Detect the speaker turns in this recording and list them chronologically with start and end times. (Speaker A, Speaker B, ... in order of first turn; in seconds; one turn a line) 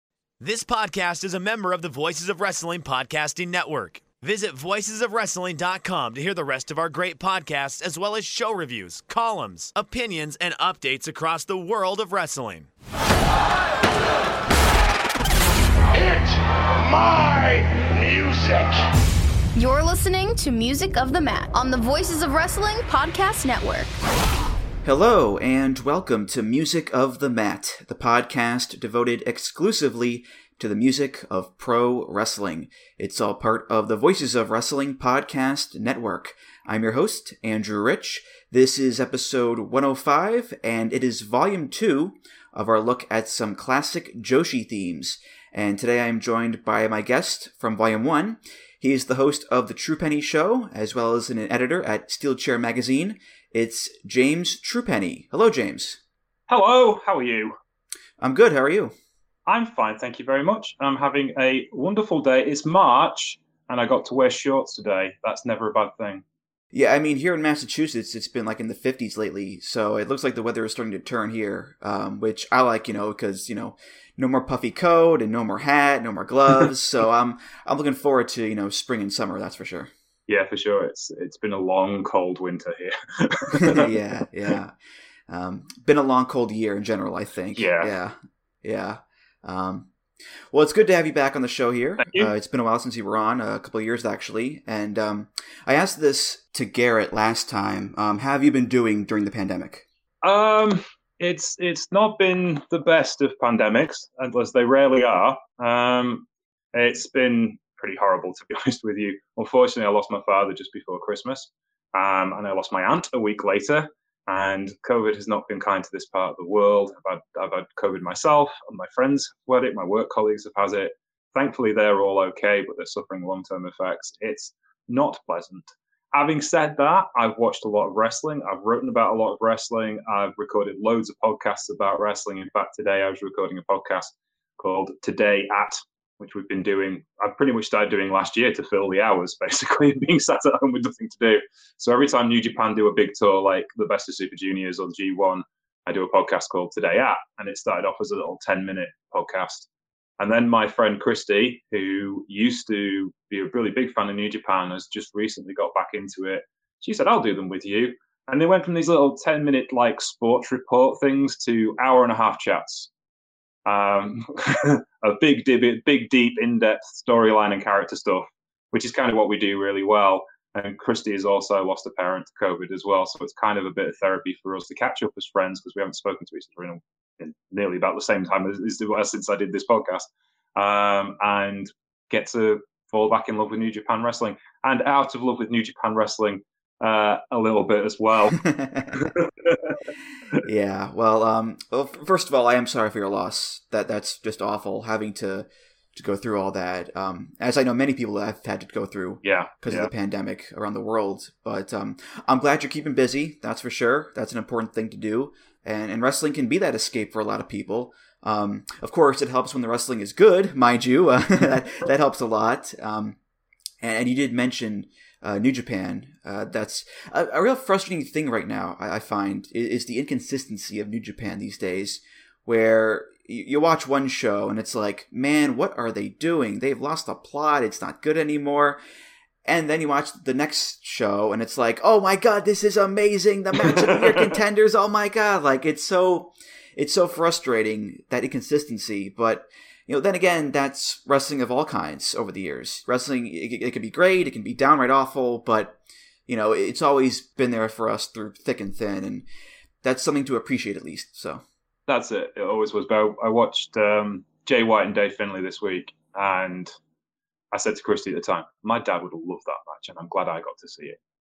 Speaker A: 0.4-12.7
Speaker B: 15.9-18.8
Speaker C: 19.6-23.9
Speaker D: 24.8-56.0
Speaker E: 56.5-57.5
Speaker D: 58.2-58.9
Speaker E: 59.5-66.2
Speaker D: 66.7-79.9
Speaker E: 80.3-83.9
Speaker D: 83.5-84.7
Speaker D: 85.3-89.9
Speaker E: 87.6-87.9
Speaker D: 90.5-99.8
Speaker E: 92.0-92.3
Speaker E: 100.2-162.9
Speaker E: 163.7-189.8
Speaker D: 188.5-189.1
Speaker D: 190.4-213.2
Speaker E: 199.2-199.9
Speaker D: 213.8-228.8
Speaker D: 229.4-249.2
Speaker D: 249.8-251.4
Speaker E: 251.9-256.7
Speaker E: 257.5-261.0